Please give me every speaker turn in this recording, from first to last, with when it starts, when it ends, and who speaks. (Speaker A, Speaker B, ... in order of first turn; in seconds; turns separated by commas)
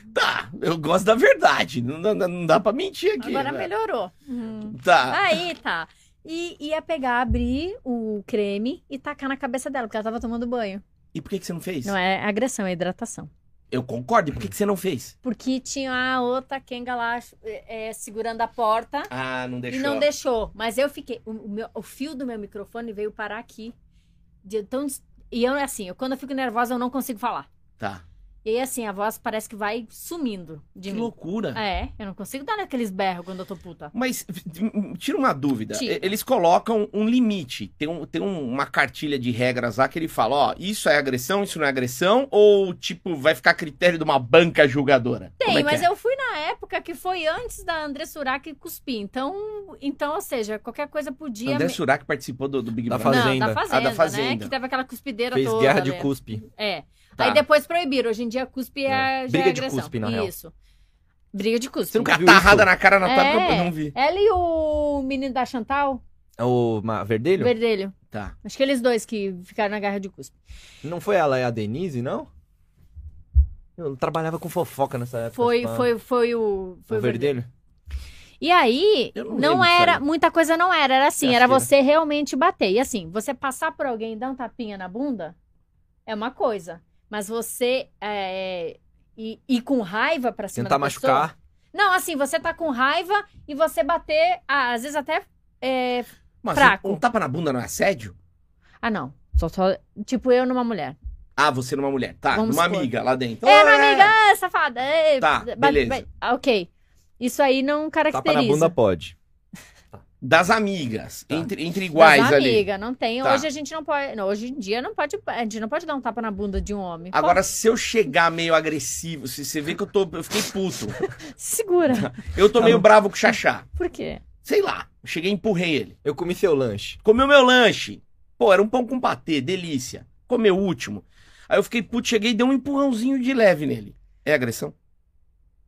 Speaker A: 0.1-3.7, Speaker B: 3.2-10.8, Speaker A: 4.7-5.2, Speaker A: 11.1-11.9, Speaker B: 11.8-13.3, Speaker A: 13.7-15.2, Speaker B: 15.2-19.1, Speaker A: 19.1-20.1, Speaker B: 19.7-23.7, Speaker B: 24.4-27.5, Speaker B: 28.4-33.9, Speaker A: 30.9-31.6, Speaker A: 33.9-45.9, Speaker B: 35.7-36.1, Speaker B: 45.4-51.8, Speaker A: 51.5-54.5, Speaker C: 52.9-53.6, Speaker B: 53.0-60.5, Speaker C: 55.3-56.4, Speaker C: 58.9-60.3, Speaker B: 61.3-62.1, Speaker C: 61.9-62.7, Speaker A: 62.1-64.0, Speaker B: 63.0-66.0, Speaker C: 66.4-67.5, Speaker B: 67.4-70.3, Speaker C: 70.8-72.3, Speaker C: 73.8-75.9, Speaker B: 75.3-77.3, Speaker C: 76.9-77.5, Speaker B: 78.4-85.3, Speaker A: 79.2-80.0, Speaker C: 81.2-81.7, Speaker B: 86.1-97.0, Speaker C: 90.6-91.3, Speaker A: 96.4-98.1, Speaker B: 98.8-101.0, Speaker A: 101.4-104.1, Speaker B: 102.3-102.9, Speaker B: 103.4-108.8, Speaker A: 105.2-106.0, Speaker C: 108.1-109.2, Speaker A: 110.2-112.6, Speaker B: 112.0-117.4, Speaker A: 117.1-121.0, Speaker B: 121.0-122.8, Speaker A: 121.9-123.7, Speaker B: 123.8-124.2, Speaker A: 124.4-126.0, Speaker C: 126.0-127.0, Speaker A: 127.0-134.7